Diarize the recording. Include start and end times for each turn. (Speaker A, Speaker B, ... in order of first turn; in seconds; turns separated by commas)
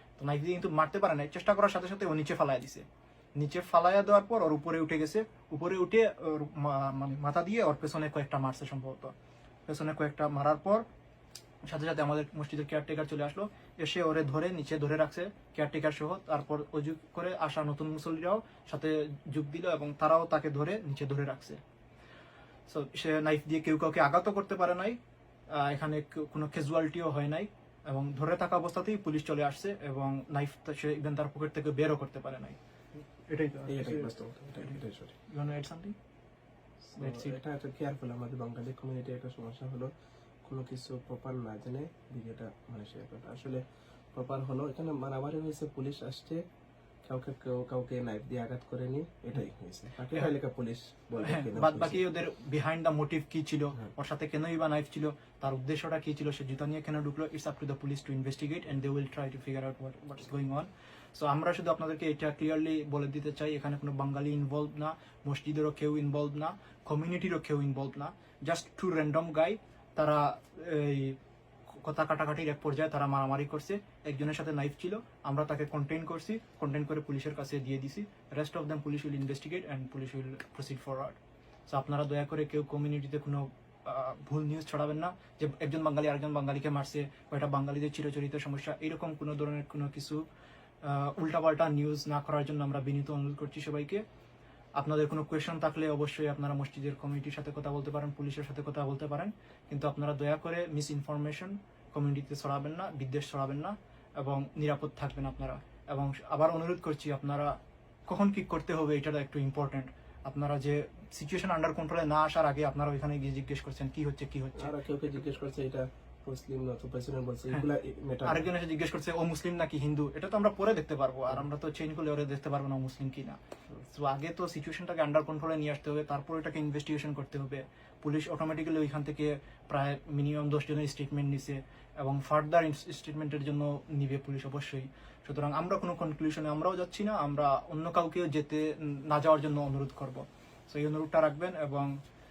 Speaker A: 0.2-9.1, Speaker A: 9.7-10.8, Speaker A: 11.7-21.6, Speaker A: 22.7-25.0, Speaker A: 25.5-32.6, Speaker A: 33.3-36.0, Speaker B: 33.7-35.1, Speaker A: 36.9-37.4, Speaker B: 37.0-39.9, Speaker B: 40.4-43.6, Speaker B: 44.1-46.4, Speaker B: 47.0-52.0, Speaker A: 51.2-71.2, Speaker A: 71.7-90.2, Speaker A: 90.8-94.0, Speaker A: 94.8-114.7, Speaker B: 114.6-118.5, Speaker A: 118.2-141.9